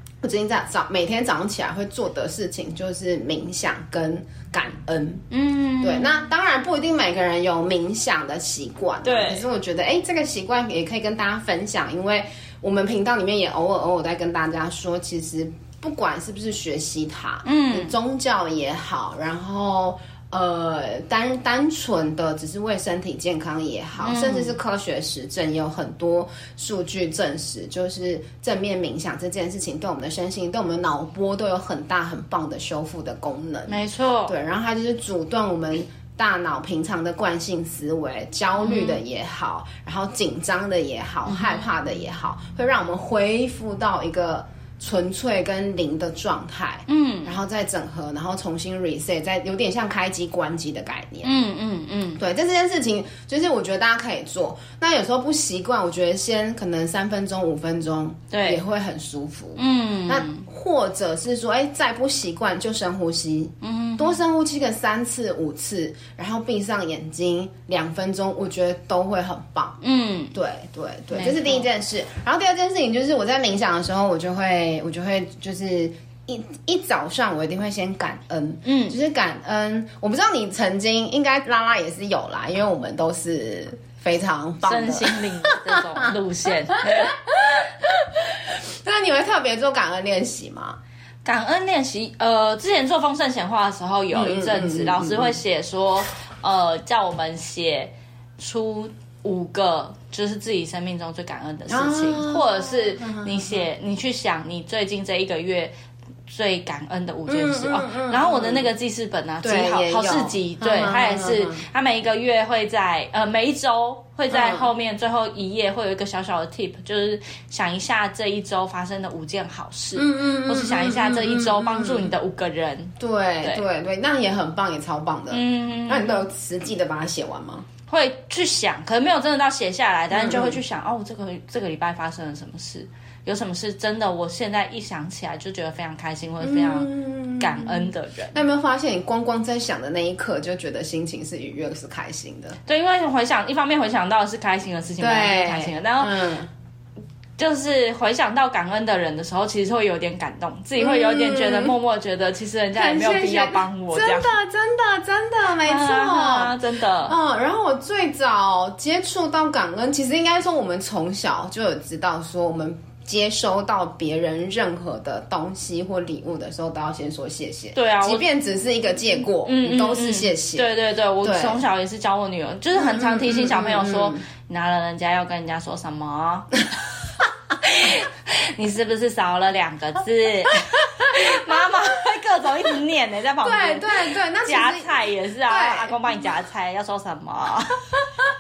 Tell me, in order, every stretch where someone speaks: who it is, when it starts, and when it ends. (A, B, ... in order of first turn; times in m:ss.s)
0:00.2-0:05.2 A
0:05.3-0:06.1 B
0:05.8-0:51.3 A
0:09.0-0:09.4 B
0:17.4-0:17.9 B
0:24.0-0:24.5 B
0:33.7-0:34.3 B
0:38.6-0:39.0 B
0:41.3-0:41.6 B
0:46.9-0:47.3 B
0:51.2-0:52.2 B
0:52.2-1:09.8 A
0:58.3-0:58.6 B
0:59.6-1:00.4 B
1:03.6-1:04.2 B
1:09.8-1:10.3 B
1:10.3-1:26.1 A
1:11.1-1:11.7 B
1:18.6-1:19.0 B
1:24.6-1:27.2 B
1:26.7-1:30.8 A
1:31.2-1:45.7 B
1:34.1-1:35.4 A
1:41.7-1:43.6 A
1:46.3-2:03.6 B
1:47.3-1:48.7 A
1:49.4-1:51.6 A
1:54.3-1:54.7 A
2:00.0-2:02.1 A
2:03.0-2:07.7 A
2:05.3-2:06.2 B
2:07.9-2:18.4 B
2:10.1-2:10.6 A
2:16.4-2:22.6 A
2:22.6-2:26.1 B
2:25.0-2:26.5 A
2:27.4-2:34.3 B
2:30.8-2:31.7 A
2:32.7-2:51.6 A
2:35.6-2:37.2 B
2:47.7-2:48.2 B
2:49.4-2:56.6 B
2:52.7-2:54.2 A
2:57.6-3:07.8 B
3:03.4-3:04.9 A
3:05.5-3:05.9 A